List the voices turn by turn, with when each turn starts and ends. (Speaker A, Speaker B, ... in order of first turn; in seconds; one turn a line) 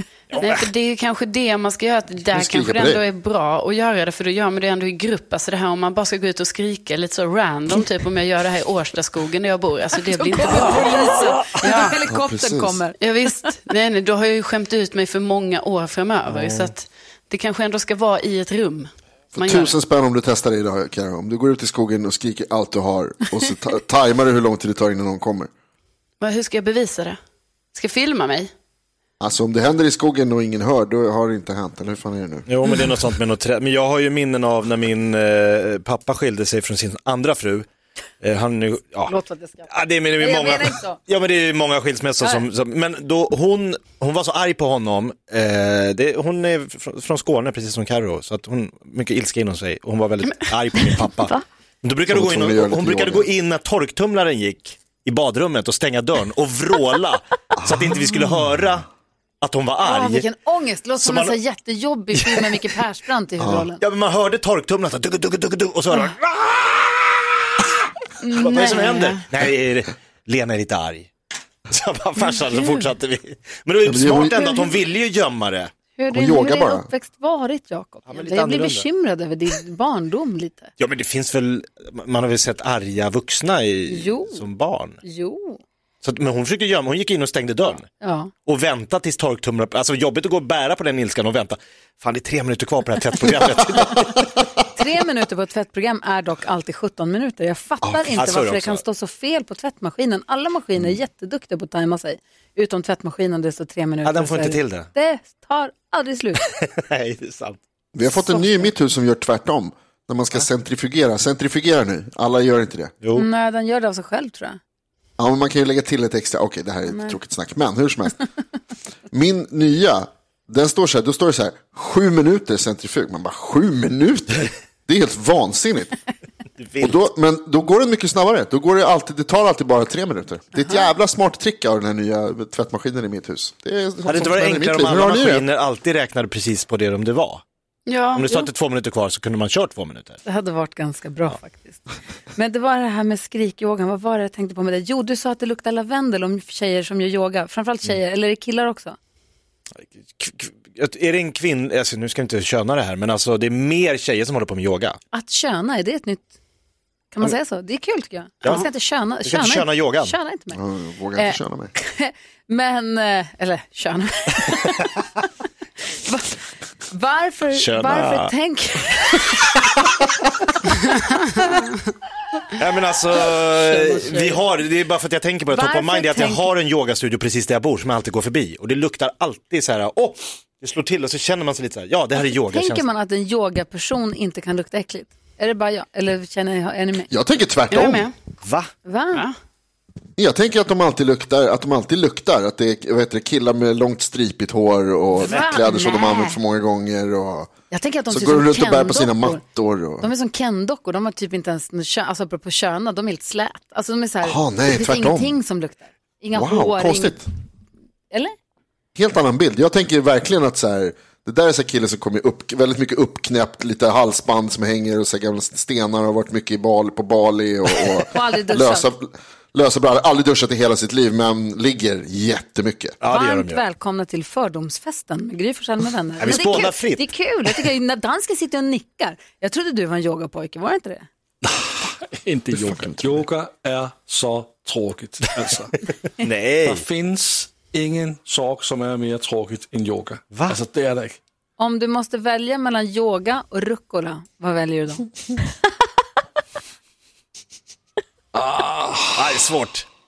Speaker A: 0.3-0.6
Speaker B: 0.4-12.0
Speaker C: 2.3-3.0
Speaker D: 10.1-13.3
Speaker C: 12.0-12.8
Speaker B: 13.0-19.8
Speaker A: 16.3-16.7
Speaker C: 19.4-25.5
Speaker B: 26.2-27.2
Speaker B: 27.7-28.5
Speaker C: 29.2-32.5
Speaker A: 32.5-37.7
Speaker A: 38.2-39.1
Speaker D: 39.1-41.0
Speaker A: 39.7-58.8
Speaker C: 52.1-53.3
Speaker C: 57.6-58.0
Speaker A: 59.4-60.3
Speaker D: 59.8-63.8
Speaker A: 61.0-61.4
Speaker A: 62.1-62.6
Speaker C: 63.4-63.7
Speaker A: 63.8-67.3
Speaker B: 68.3-69.2
Speaker A: 68.3-71.1
Speaker D: 68.6-68.8
Speaker A: 71.7-75.7
Speaker C: 73.8-74.4
Speaker D: 76.0-80.7
Speaker C: 76.1-76.9
Speaker A: 78.1-78.8
Speaker A: 80.8-85.0
Speaker D: 83.9-84.4
Speaker D: 85.0-85.6
Speaker A: 86.0-87.9
Speaker D: 88.0-88.3
Speaker A: 88.5-94.2
Speaker D: 94.7-106.4
Speaker C: 97.8-98.1
Speaker A: 98.1-98.8
Speaker A: 104.0-104.9
Speaker A: 106.4-107.6
Speaker C: 107.9-112.9
Speaker D: 108.0-108.7
Speaker A: 113.0-113.3
Speaker D: 113.1-114.6
Speaker C: 115.2-118.2
Speaker C: 119.1-126.0
Speaker A: 126.6-127.0
Speaker C: 126.8-135.4
Speaker A: 134.1-137.4
Speaker B: 137.9-138.3
Speaker A: 138.1-140.2
Speaker D: 140.2-141.8
Speaker D: 142.3-149.0
Speaker A: 149.8-155.0
Speaker D: 155.1-156.3
Speaker D: 157.1-160.6
Speaker A: 159.2-160.2
Speaker C: 160.5-161.7
Speaker D: 161.2-164.9
Speaker D: 165.9-169.5
Speaker A: 167.5-168.3
Speaker A: 172.6-182.8
Speaker D: 173.4-174.4
Speaker D: 175.5-176.5
Speaker D: 182.2-187.1
Speaker C: 187.1-188.1
Speaker B: 187.7-188.1
Speaker A: 188.4-188.7
Speaker D: 188.8-189.2
Speaker C: 190.2-197.5
Speaker D: 195.2-196.4
Speaker A: 195.2-195.5
Speaker D: 197.7-199.4
Speaker C: 198.1-200.1
Speaker D: 200.0-207.2
Speaker C: 204.2-205.4
Speaker C: 206.3-207.3
Speaker C: 208.9-223.0
Speaker D: 218.1-218.9
Speaker A: 223.0-223.6
Speaker D: 223.1-231.1
Speaker A: 226.2-227.1
Speaker E: 231.4-235.8
Speaker C: 232.6-233.2
Speaker A: 236.2-236.8
Speaker E: 236.6-241.2
Speaker A: 240.3-240.6
Speaker D: 241.6-245.1
Speaker E: 248.3-249.4
Speaker A: 249.2-249.8